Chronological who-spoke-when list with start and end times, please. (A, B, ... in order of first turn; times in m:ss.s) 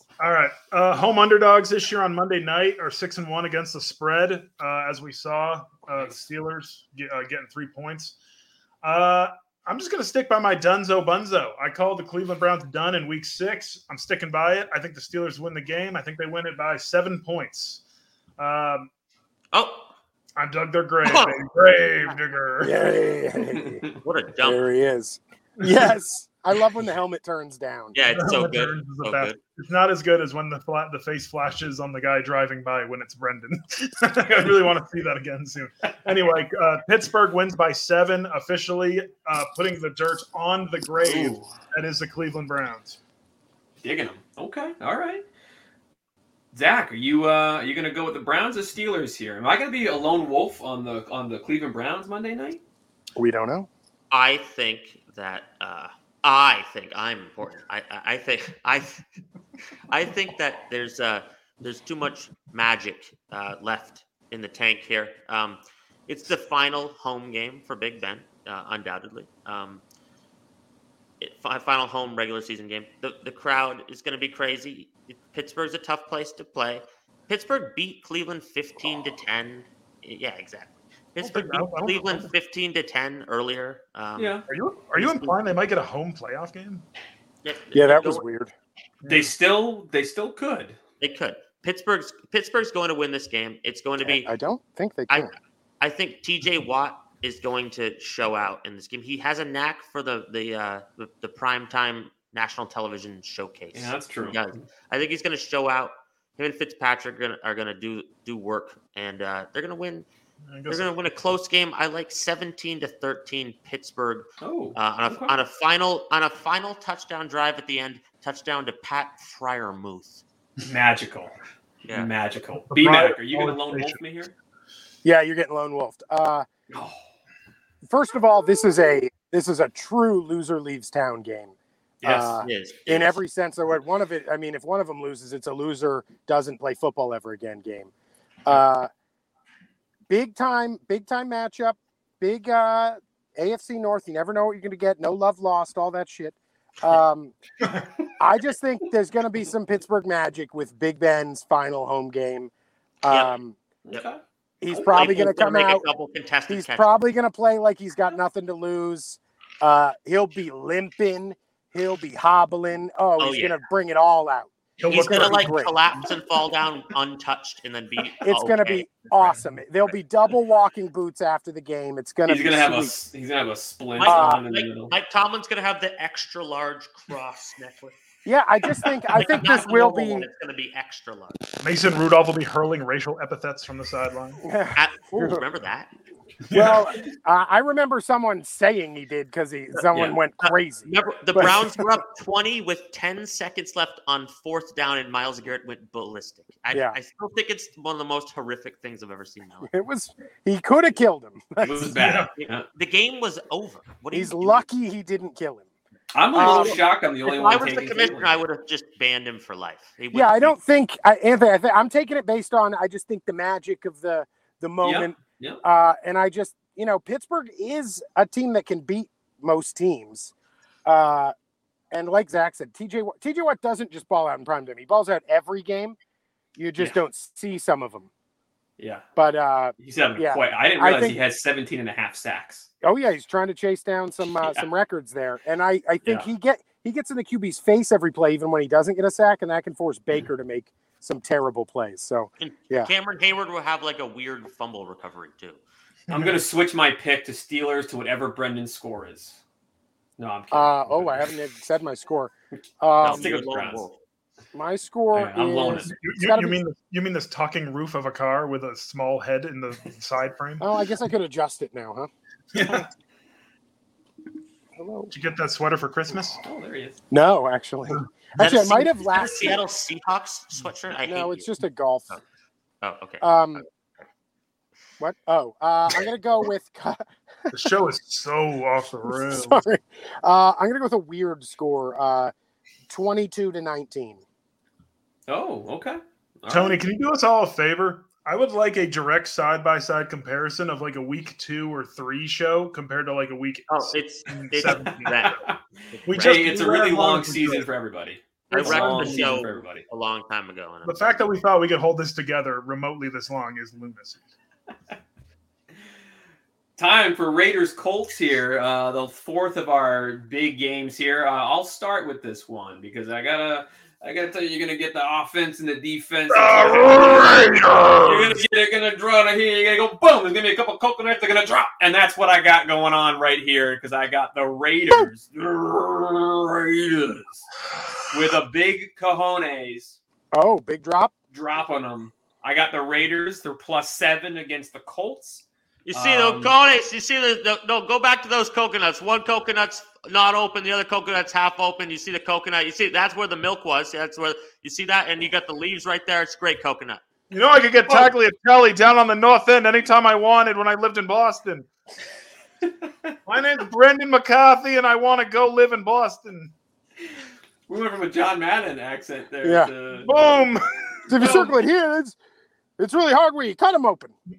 0:00.2-0:08.2 A
0:08.8-0:17.8 A
0:18.4-0:18.9 A
0:19.5-0:19.9 B
0:20.4-0:22.8 A
0:21.0-0:21.4 B
0:22.6-0:23.8 C
0:23.6-0:24.0 D
0:24.0-0:24.6 B
0:24.4-0:27.9 C
0:27.9-0:29.4 B
0:28.1-0:43.0 A
0:41.0-0:41.5 D
0:43.8-0:45.2 D
0:46.5-0:52.6 D
0:53.2-0:53.7 C
0:54.1-0:59.0 B
0:59.9-1:09.8 B
1:11.2-1:24.4 B
1:21.2-1:22.3 A
1:24.2-1:24.4 D
1:24.5-1:26.8 A
1:25.0-1:25.4 B
1:27.4-1:28.2 B
1:27.7-1:28.5 C
1:29.0-1:29.3 A
1:29.1-1:30.8 D
1:31.0-1:34.3 B
1:34.0-1:35.3 C
1:35.1-1:50.0 B
1:43.7-1:44.6 D
1:50.5-1:50.9 A
1:50.7-2:00.2 B
1:54.4-1:55.4 D
2:00.7-2:01.4 D
2:01.8-2:02.1 B
2:01.9-2:04.3 D
2:02.7-2:04.0 A
2:05.0-2:06.4 C
2:06.7-2:07.1 D
2:07.8-2:17.9 C
2:12.0-2:12.4 D
2:12.4-2:13.2 B
2:18.4-2:18.9 C
2:20.1-2:27.4 C
2:28.2-2:32.5 C
2:33.0-2:33.6 C
2:33.9-2:34.2 D
2:34.6-2:35.8 C
2:34.7-2:37.0 B
2:36.5-2:45.7 C
2:43.2-2:43.6 B
2:44.8-2:45.6 A
2:44.9-2:49.4 B
2:48.2-2:52.9 C
2:52.3-2:54.9 D
2:54.0-2:58.0 B
2:54.0-2:54.4 C
2:58.2-3:00.3 C
2:59.1-3:01.4 B
3:01.6-3:04.4 A
3:04.4-3:05.4 C
3:04.7-3:05.9 B
3:06.5-3:06.9 A
3:06.5-3:11.8 C
3:10.4-3:19.7 B
3:19.6-3:21.9 C
3:21.6-3:22.6 D
3:21.9-3:22.3 A
3:22.4-3:24.6 B
3:24.1-3:25.7 C
3:26.1-3:28.4 D
3:26.3-3:26.8 C
3:26.3-3:30.5 B
3:30.1-3:40.3 C
3:34.8-3:35.6 D
3:40.8-3:41.3 C
3:41.9-3:46.0 C
3:46.6-3:48.1 C
3:48.8-3:49.0 D
3:49.2-3:51.2 C
3:49.8-3:52.7 D
3:52.8-4:02.9 C
3:56.0-3:56.3 D
4:02.4-4:05.6 B
4:06.1-4:06.4 A
4:06.1-4:09.4 D
4:10.2-4:11.3 D
4:10.5-4:13.3 C
4:13.0-4:14.0 B
4:13.0-4:13.9 D
4:14.5-4:16.6 C
4:15.1-4:15.9 D
4:15.8-4:20.7 A
4:20.6-4:22.1 C
4:22.5-4:22.9 A
4:24.7-4:25.1 C
4:25.1-4:26.4 A
4:26.4-4:27.0 D
4:27.1-4:29.6 C
4:28.4-4:31.5 B
4:31.0-4:32.2 C
4:32.8-4:33.6 B
4:33.2-4:33.6 C
4:35.0-4:37.7 C
4:37.5-4:39.6 A
4:39.1-4:42.3 C
4:42.9-4:44.2 C
4:45.3-4:46.8 D
4:46.5-4:55.4 A
4:53.7-4:56.5 B
4:56.1-4:57.7 A
4:56.2-4:59.8 D
4:58.5-5:01.2 B
4:58.5-4:59.3 A
5:00.8-5:04.2 A
5:06.8-5:17.3 D
5:16.3-5:18.4 A
5:18.0-5:27.4 D
5:28.1-5:30.0 D
5:30.3-5:31.1 C
5:31.3-5:36.5 D
5:35.9-5:47.0 B
5:47.3-5:51.7 A
5:52.8-5:53.1 D
5:53.2-5:56.5 A
5:57.7-6:00.4 D
5:59.4-5:59.7 C
6:00.0-6:01.5 A
6:01.1-6:02.2 C
6:02.8-6:04.1 C